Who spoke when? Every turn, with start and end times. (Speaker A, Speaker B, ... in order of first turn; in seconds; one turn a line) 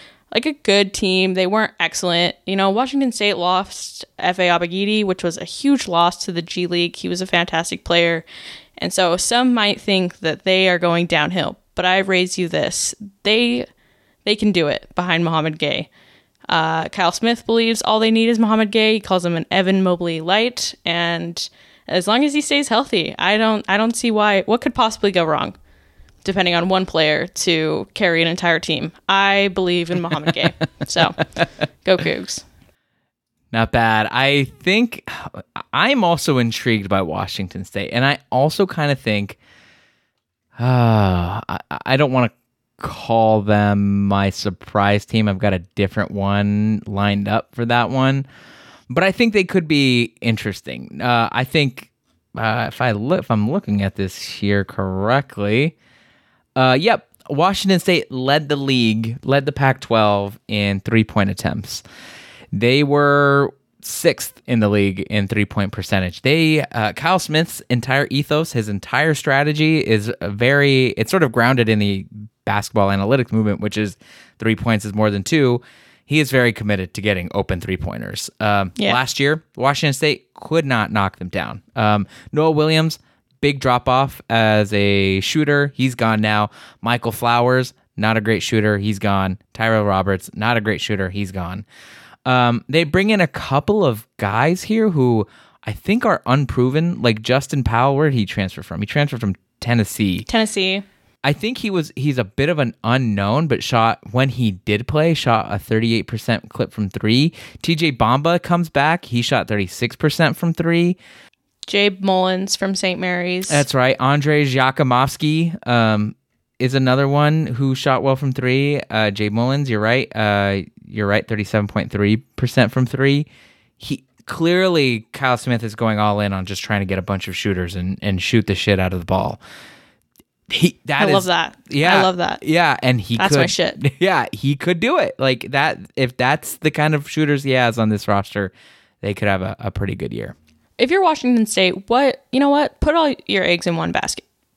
Speaker A: 0.3-8.2
Speaker A: 8.8-13.7
Speaker A: 14.2-15.9
Speaker A: 16.5-25.6
Speaker A: 26.2-31.3
Speaker A: 31.8-32.5
Speaker B: 33.5-39.4
Speaker B: 40.6-48.2
Speaker B: 48.9-55.7
Speaker B: 56.6-61.8
Speaker B: 62.5-91.7
Speaker B: 92.3-100.3
Speaker A: 100.3-100.8
Speaker B: 101.2-111.0
Speaker A: 111.7-113.7
Speaker B: 113.5-123.3
Speaker B: 123.8-129.4
Speaker B: 130.5-140.3
Speaker A: 131.0-132.4
Speaker A: 133.2-133.8
Speaker A: 140.8-144.2